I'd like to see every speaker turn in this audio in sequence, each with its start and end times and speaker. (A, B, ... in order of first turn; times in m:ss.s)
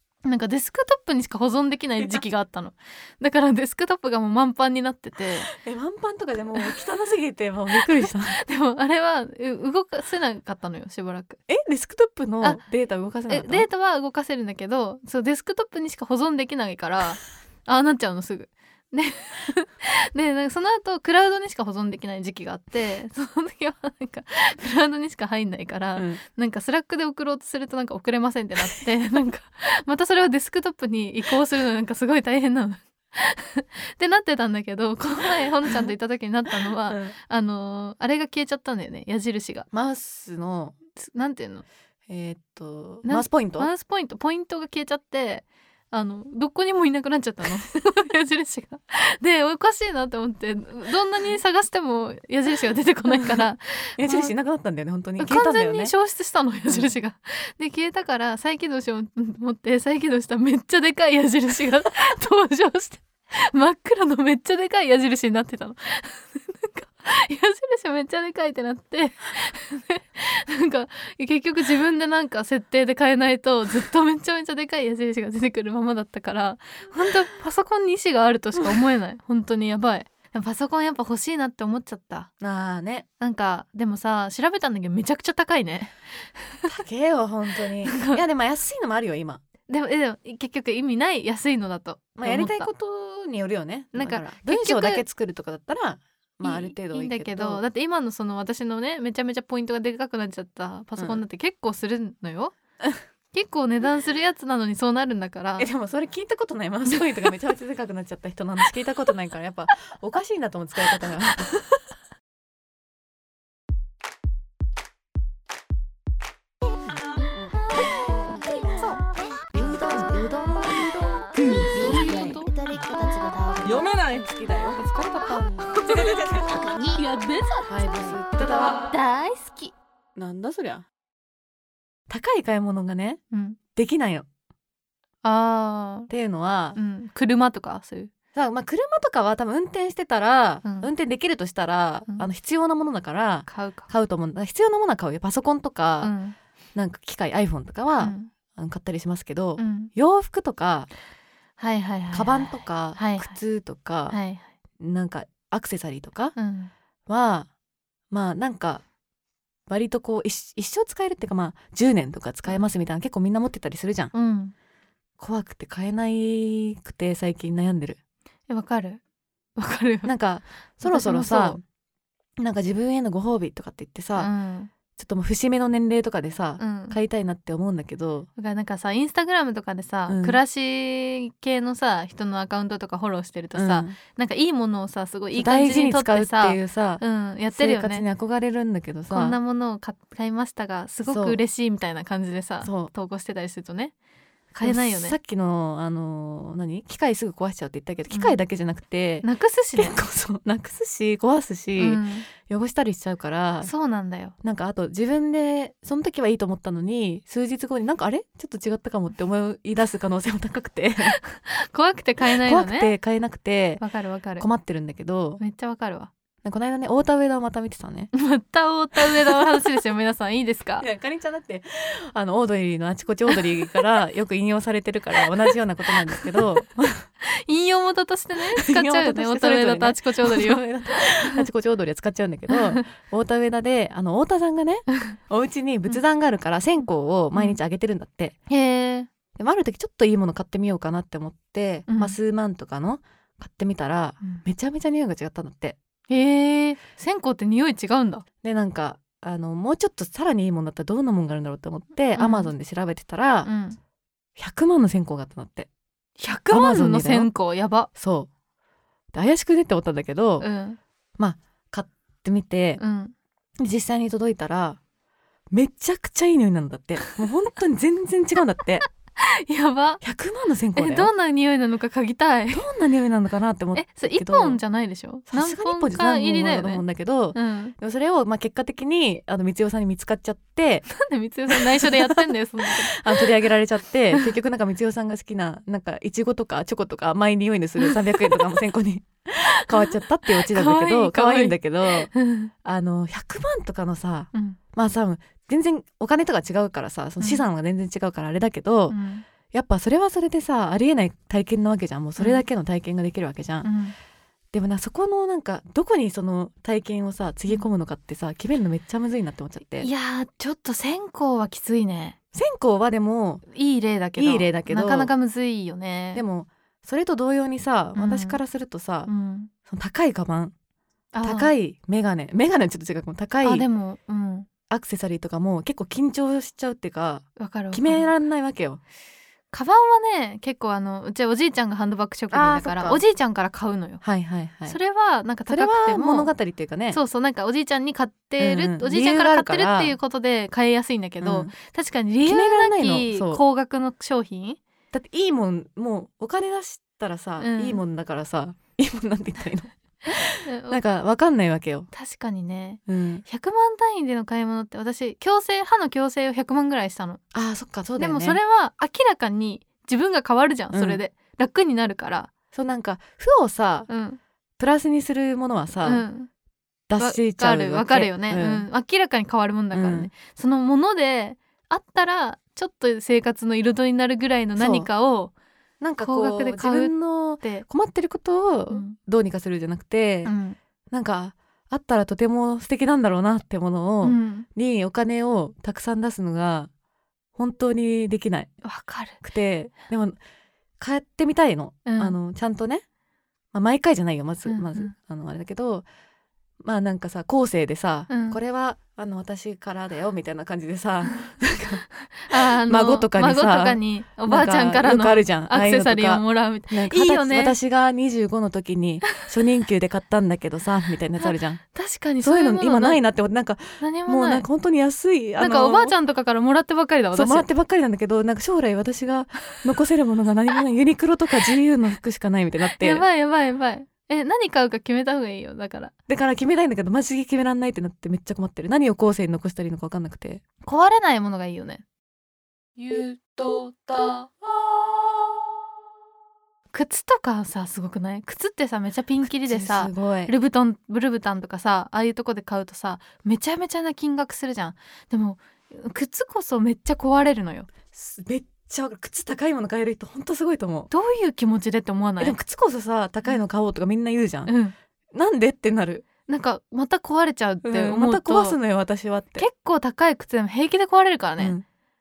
0:00.2-0:05.5 A
0:05.5-0:08.4 B
0:07.8-0:11.4 A
0:11.5-0:13.7 B
0:13.3-0:39.7 A
0:26.0-0:26.2 B
0:36.9-0:37.1 B
0:39.7-0:40.8 B
0:41.0-0:41.6 A
0:42.1-0:43.7 B
0:43.0-0:54.3 A
0:53.1-0:53.4 B
0:54.0-0:55.9 B
0:55.2-1:22.3 A
1:22.4-1:23.0 B
1:23.2-1:26.7 A
1:26.7-1:29.4 B
1:27.8-1:28.2 A
1:29.7-1:32.7 A
1:32.2-1:37.6 B
1:33.9-1:35.0 A
1:36.4-1:42.5 A
1:41.0-1:41.2 B
1:43.3-1:45.7 A
1:45.6-1:51.5 B
1:46.9-1:47.3 A
1:57.9-1:58.9 C
1:59.5-2:09.6 C
2:01.8-2:02.5 A
2:04.4-2:04.8 B
2:05.9-2:06.4 B
2:07.7-2:08.8 B
2:08.9-2:09.7 A
2:10.2-2:10.8 B
2:12.1-2:13.2 B
2:13.3-2:13.6 A
2:13.7-2:14.2 B
2:15.2-2:16.1 A
2:16.1-2:16.8 B
2:16.8-2:18.1 A
2:18.3-2:26.1 B
2:20.6-2:20.9 A
2:23.5-2:23.9 A
2:26.0-2:26.4 A
2:26.7-2:30.9 B
2:28.0-2:28.3 A
2:29.6-2:29.9 A
2:31.6-2:33.3 A
2:32.1-2:34.2 B
2:34.1-2:34.5 A
2:34.8-2:36.4 B
2:36.4-2:36.7 A
2:37.1-2:37.5 B
2:38.1-2:38.8 B
2:39.7-2:44.1 B
2:44.1-2:44.5 A
2:45.2-2:48.0 B
2:48.5-2:49.0 A
2:49.6-2:50.1 A
2:50.0-2:51.6 B
2:50.8-2:51.6 A
2:52.4-2:54.3 B
2:54.2-2:54.7 A
2:54.9-2:58.3 B
2:56.6-2:57.0 A
2:58.4-3:08.0 A
3:00.1-3:00.4 B
3:03.5-3:04.0 B
3:05.3-3:09.4 B
3:09.1-3:13.9 A
3:11.1-3:11.4 B
3:12.6-3:12.9 B
3:14.5-3:15.2 A
3:14.6-3:23.7 B
3:18.1-3:18.4 A
3:19.2-3:20.0 A
3:21.8-3:22.3 A
3:23.6-3:24.3 A
3:24.4-3:31.2 B
3:31.3-3:32.9 A
3:32.4-3:33.8 B
3:33.8-3:34.4 A
3:34.4-3:35.4 B
3:35.4-3:36.1 A
3:36.4-3:38.1 B
3:38.1-3:40.8 A
3:40.8-3:47.0 B
3:43.3-3:43.8 A
3:47.2-3:50.6 A
3:48.6-3:58.4 B
3:52.5-3:52.8 A
3:58.5-3:59.1 A
3:59.3-4:05.8 B
4:01.9-4:02.1 A
4:06.1-4:08.2 A
4:08.4-4:13.5 B
4:12.2-4:12.5 A
4:13.4-4:13.8 A
4:14.4-4:15.7 B
4:16.2-4:17.9 A
4:16.5-4:17.3 B
4:17.9-4:18.3 B
4:19.1-4:20.5 B
4:20.4-4:20.8 A
4:21.2-4:22.8 B
4:22.8-4:23.1 A
4:23.6-4:24.8 B
4:25.5-4:28.9 B
4:29.2-4:30.0 A
4:30.0-4:31.1 B
4:30.8-4:32.6 A
4:32.5-4:34.6 B
4:33.7-4:36.8 A
4:35.3-4:40.9 B
4:37.3-4:37.7 A
4:40.9-4:43.3 A
4:41.5-4:52.1 B
4:47.8-4:48.6 A
4:49.7-4:52.5 A
4:52.6-4:59.0 B
4:54.3-4:54.6 A
4:57.2-4:57.4 A
4:58.9-4:59.2 A
4:59.5-5:03.7 B
5:02.2-5:02.4 A
5:03.6-5:04.0 A
5:04.5-5:09.9 B
5:09.8-5:12.2 A
5:12.3-5:13.4 B
5:13.5-5:16.2 A
5:14.2-5:15.1 B
5:16.1-5:19.1 B
5:18.0-5:18.4 A
5:19.1-5:19.5 A
5:19.6-5:20.5 B
5:21.1-5:21.5 A
5:21.2-5:23.6 B
5:23.4-5:24.5 A
5:24.7-5:28.8 B
5:27.4-5:28.1 A
5:29.5-5:34.0 A
5:32.3-5:33.0 B
5:34.0-5:34.8 B
5:34.7-5:36.3 A
5:35.5-5:37.0 B
5:36.9-5:44.6 A
5:38.4-5:40.0 B
5:41.2-5:41.5 B
5:42.2-5:43.4 B
5:44.9-5:51.9 B
5:47.4-5:47.8 A
5:50.4-5:50.8 A
5:51.9-5:57.2 A
5:52.9-5:53.2 B
5:57.3-5:58.4 B
5:58.0-6:02.3 A
6:00.7-6:01.0 B
6:02.5-6:03.9 B
6:03.9-6:04.2 A
6:04.6-6:06.0 B
6:05.8-6:06.3 A
6:06.9-6:08.7 B
6:07.0-6:15.3 A
6:09.7-6:10.1 B
6:14.6-6:14.9 B
6:15.8-6:20.3 B
6:16.0-6:17.6 A
6:18.7-6:19.0 A
6:20.2-6:20.6 A
6:20.9-6:26.7 B
6:24.0-6:24.5 A
6:27.4-6:28.5 B
6:28.6-6:29.2 A
6:29.2-6:30.2 B
6:30.8-6:32.8 B
6:31.8-6:32.2 A
6:33.5-6:35.8 B
6:34.4-6:34.9 A
6:36.6-6:51.6 B
6:38.1-6:38.4 A
6:42.1-6:47.6 A
6:51.2-6:53.0 A
6:52.2-6:55.9 B
6:53.8-6:54.4 A
6:55.4-6:57.5 A
6:57.1-7:03.0 B
7:02.8-7:05.9 A
7:06.1-7:10.4 B
7:10.6-7:11.8 A
7:13.2-7:13.7 C
7:16.7-7:27.7 A
7:19.4-7:20.3 B
7:27.9-7:30.9 B
7:30.9-7:32.4 A
7:32.2-7:34.5 B
7:34.4-7:34.7 A
7:35.1-7:36.0 B
7:36.3-7:38.6 A
7:37.6-7:39.5 B
7:39.4-7:41.6 A
7:41.4-7:41.6 B